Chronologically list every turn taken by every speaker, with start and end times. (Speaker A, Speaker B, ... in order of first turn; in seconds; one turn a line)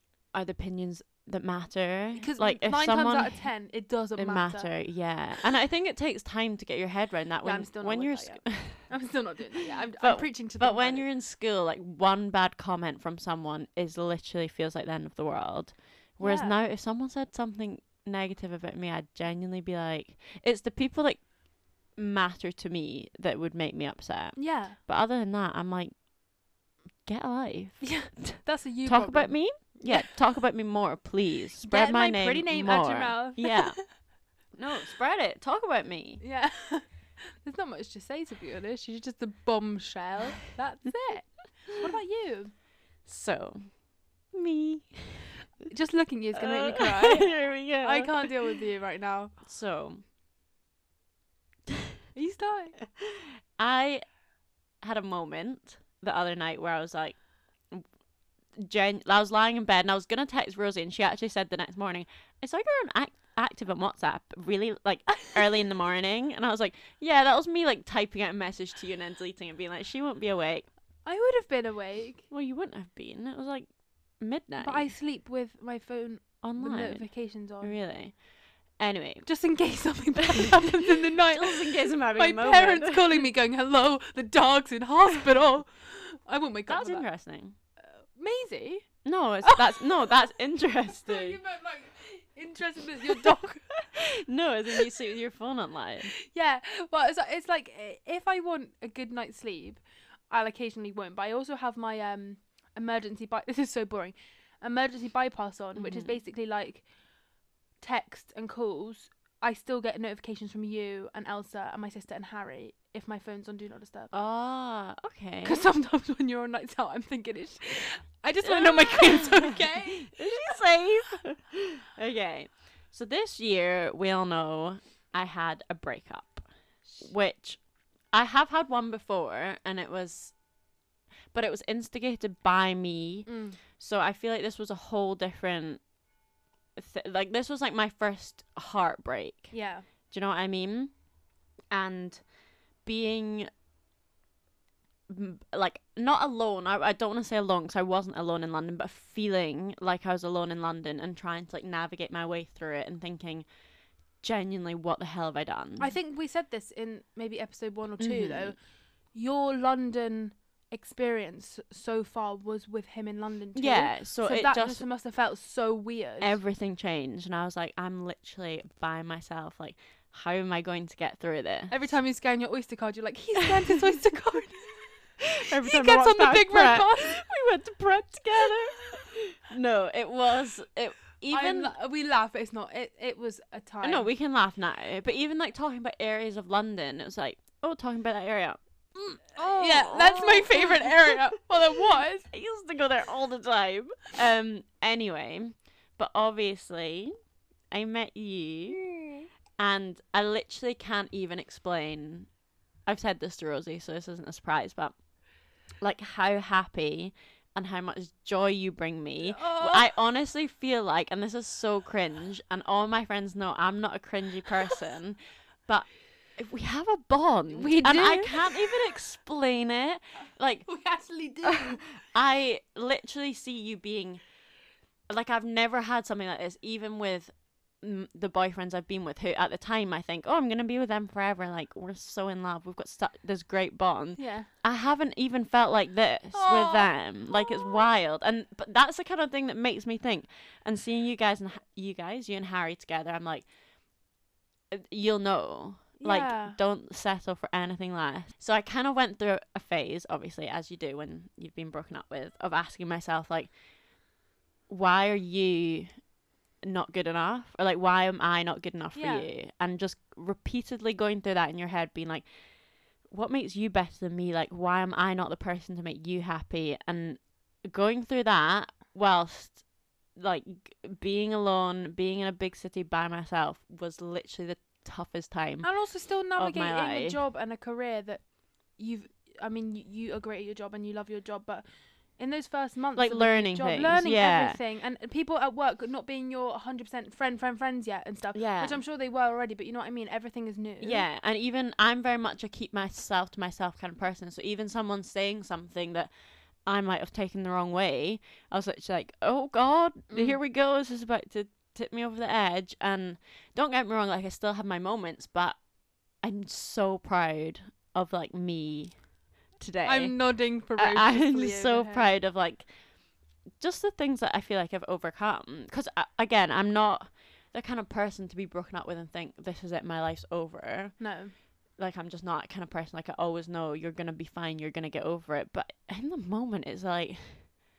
Speaker A: 0.3-3.5
Speaker B: 2.1-4.7
Speaker A: 4.2-8.9
Speaker B: 7.4-11.1
Speaker A: 10.0-21.2
Speaker B: 16.2-16.6
Speaker A: 21.9-25.9
Speaker B: 24.4-24.8
Speaker A: 27.1-33.8
Speaker B: 27.8-30.1
Speaker B: 31.6-33.8
Speaker A: 34.5-36.2
Speaker B: 36.2-36.8
Speaker B: 37.4-42.5
Speaker A: 43.0-43.7
Speaker A: 44.3-45.4
Speaker B: 45.7-49.3
Speaker A: 46.4-48.5
Speaker A: 49.4-50.0
Speaker B: 52.1-52.8
Speaker A: 53.0-54.0
Speaker A: 54.8-57.2
Speaker A: 58.6-70.7
Speaker B: 71.0-72.2
Speaker A: 72.3-73.7
Speaker A: 74.2-74.9
Speaker B: 74.6-77.8
Speaker A: 76.4-77.1
Speaker A: 77.6-78.1
Speaker A: 78.8-79.3
Speaker B: 79.2-87.0
Speaker A: 80.3-83.3
Speaker A: 86.7-87.5
Speaker B: 87.8-88.8
Speaker A: 89.0-91.4
Speaker B: 89.4-90.0
Speaker B: 90.9-93.7
Speaker A: 93.8-96.1
Speaker B: 96.2-106.8
Speaker A: 105.7-106.2
Speaker B: 107.8-114.1
Speaker A: 114.1-115.6
Speaker B: 115.4-120.6
Speaker A: 118.4-126.5
Speaker A: 127.0-127.6
Speaker A: 128.1-130.3
Speaker A: 131.3-135.8
Speaker B: 133.2-133.6
Speaker A: 136.8-139.5
Speaker B: 139.5-139.9
Speaker A: 140.1-140.9
Speaker A: 141.7-142.2
Speaker A: 142.8-143.5
Speaker A: 145.1-153.5
Speaker A: 154.2-155.9
Speaker B: 155.8-158.6
Speaker A: 158.0-158.5
Speaker B: 159.1-166.4
Speaker A: 163.6-164.8
Speaker A: 166.2-171.8
Speaker B: 171.7-175.0
Speaker A: 175.4-181.7
Speaker B: 175.6-177.2
Speaker B: 181.3-184.1
Speaker A: 183.8-191.2
Speaker B: 189.3-192.3
Speaker A: 192.3-197.1
Speaker A: 197.7-198.8
Speaker A: 199.6-202.3
Speaker A: 202.9-204.9
Speaker A: 205.8-220.7
Speaker B: 209.2-209.9
Speaker B: 217.5-218.4
Speaker B: 220.7-221.9
Speaker A: 221.4-224.2
Speaker A: 225.1-243.5
Speaker B: 234.2-234.5
Speaker B: 236.3-237.8
Speaker A: 244.7-253.5
Speaker B: 246.0-246.6
Speaker A: 254.7-255.9
Speaker A: 256.6-262.2
Speaker B: 258.9-259.3
Speaker A: 263.1-269.6
Speaker A: 270.1-275.7
Speaker B: 275.6-278.2
Speaker A: 276.3-277.2
Speaker B: 278.8-281.6
Speaker B: 282.2-291.1
Speaker A: 282.9-284.6
Speaker A: 288.3-288.8
Speaker A: 290.8-296.1
Speaker A: 296.6-305.6
Speaker B: 300.1-300.4
Speaker A: 306.2-308.9
Speaker A: 309.6-310.2
Speaker B: 309.8-312.1
Speaker A: 310.8-312.7
Speaker A: 313.6-321.0
Speaker B: 321.0-321.3
Speaker A: 321.8-327.5